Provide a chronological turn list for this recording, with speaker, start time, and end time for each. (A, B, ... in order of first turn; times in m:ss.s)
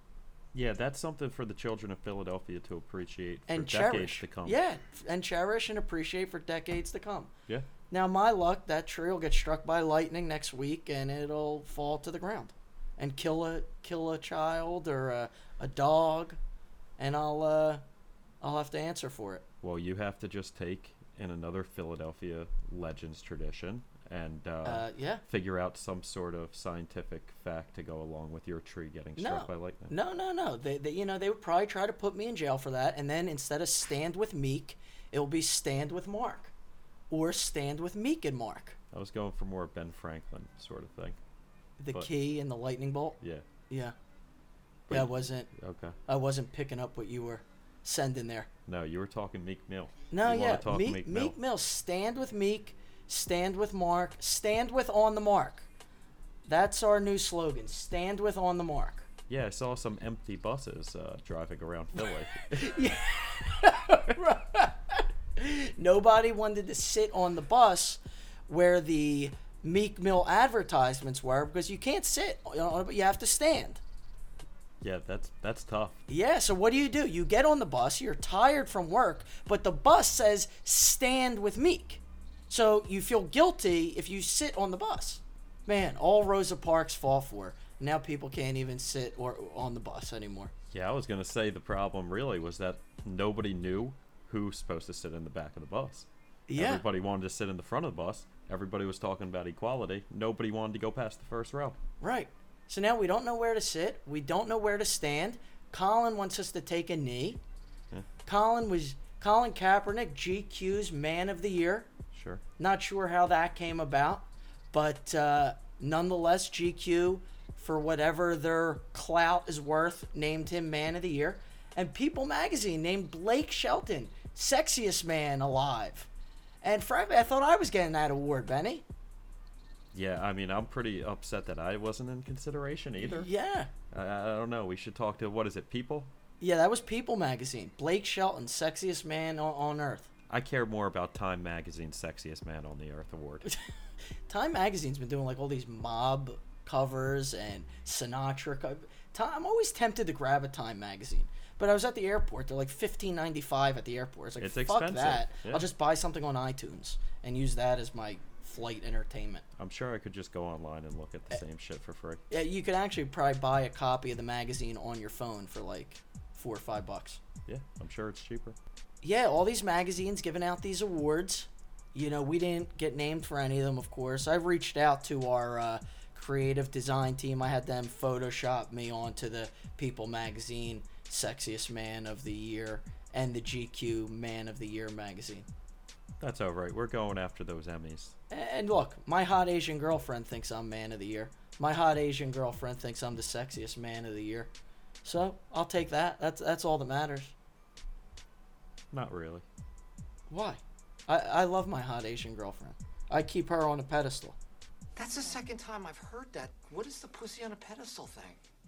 0:00.5-0:04.6 A
0:03.5-0:07.3 B
0:07.9-0:16.4 B
0:17.0-0:17.8 B
0:18.4-0:19.4 B
0:19.6-0:29.9 A
0:24.6-0:25.2 B
0:29.2-0:36.5 B
0:37.1-0:38.8 B
0:38.9-0:41.2 A
0:41.8-0:43.2 B
0:43.7-0:44.0 B
0:44.9-0:46.0 A
0:44.9-0:45.5 B
0:46.1-0:48.5 B
0:48.7-0:51.4 A
0:50.1-0:55.7 B
0:56.5-0:59.1 B
0:59.3-1:02.7 A
1:02.5-1:13.8 B
1:14.8-1:16.0 A
1:16.1-1:30.5 B
1:30.7-1:41.8 A
1:36.5-1:36.8 B
1:42.0-1:47.4 B
1:48.3-1:51.9 B
1:52.1-1:52.4 A
1:52.6-2:06.1 B
2:06.6-2:08.8 B
2:09.9-2:13.3 A
2:13.0-2:13.7 B
2:13.9-2:16.1 A
2:16.4-2:20.1 B
2:20.3-2:23.4 A
2:24.3-2:39.4 B
2:34.4-2:35.7 A
2:39.6-2:42.2 A
2:42.3-2:47.2 B
2:47.5-2:48.6 A
2:49.0-3:05.5 B
3:06.2-3:08.2 A
3:08.3-3:14.5 B
3:15.0-3:17.3 B
3:18.9-3:19.4 A
3:20.3-3:24.4 B
3:25.0-3:28.4 C